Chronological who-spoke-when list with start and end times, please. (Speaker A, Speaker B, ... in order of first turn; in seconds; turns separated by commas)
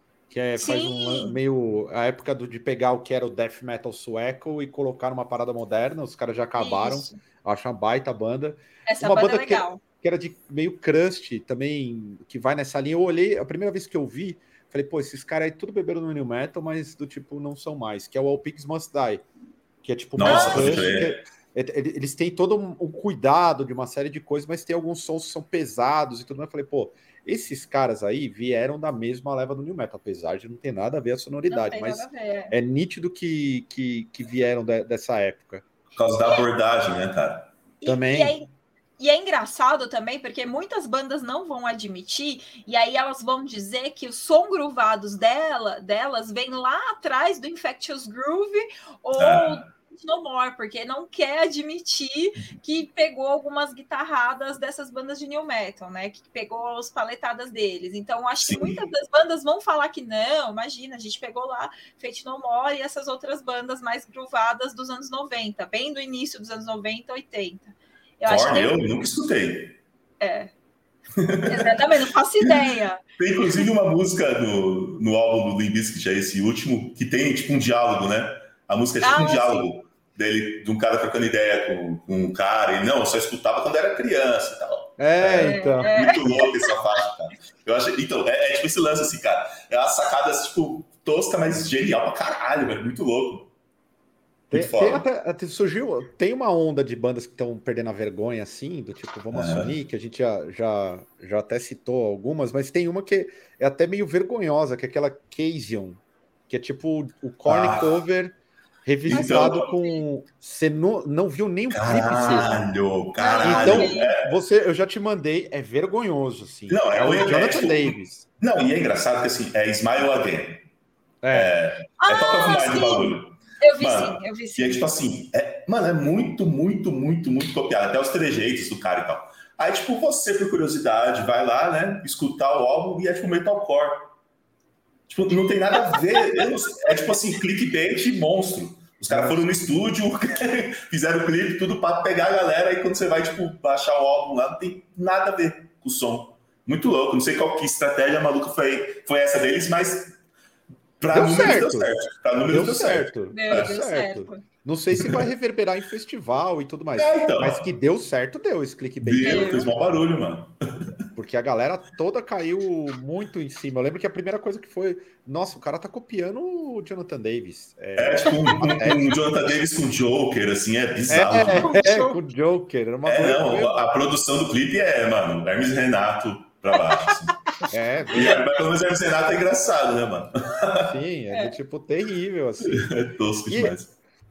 Speaker A: 0.3-19.2, Speaker B: 0.6-1.4, Speaker B: 6.6-7.2, Speaker B: 8.9-9.8, Speaker A: 19.8-35.6, Speaker C: 20.2-21.2, Speaker B: 20.2-20.9, Speaker B: 31.5-32.5, Speaker C: 36.0-37.5, Speaker B: 37.8-38.5, Speaker A: 37.9-38.4, Speaker B: 39.0-68.8, Speaker C: 49.2-49.6, Speaker C: 58.4-58.8, Speaker C: 68.2-69.8, Speaker B: 70.2-70.5, Speaker C: 71.2-71.9, Speaker B: 71.5-73.7, Speaker C: 72.4-93.5, Speaker B: 79.0-79.7, Speaker A: 85.0-86.0, Speaker B: 85.4-86.7, Speaker A: 94.5-112.6, Speaker C: 94.5-95.0, Speaker C: 99.3-99.7, Speaker C: 107.5-108.0, Speaker C: 109.1-109.7, Speaker B: 109.1-110.0, Speaker C: 111.7-114.3, Speaker B: 112.1-112.5, Speaker B: 113.2-114.1, Speaker A: 113.4-118.3, Speaker C: 116.7-120.7, Speaker A: 121.2-121.6, Speaker C: 121.3-134.1, Speaker B: 122.0-124.9, Speaker C: 135.1-150.2, Speaker B: 135.7-136.2, Speaker A: 139.1-139.7, Speaker C: 151.0-153.7, Speaker A: 151.1-152.0, Speaker A: 152.5-160.0, Speaker B: 153.3-154.4, Speaker C: 155.0-155.3, Speaker C: 157.0-157.7, Speaker C: 159.0-160.5, Speaker B: 159.2-159.7, Speaker A: 161.2-169.2, Speaker C: 168.0-171.7, Speaker B: 168.3-168.7, Speaker A: 171.1-173.8, Speaker B: 171.6-172.2, Speaker C: 173.1-177.3, Speaker A: 177.7-178.4, Speaker C: 178.1-180.9, Speaker A: 180.8-182.9, Speaker C: 182.6-183.9, Speaker A: 183.5-183.8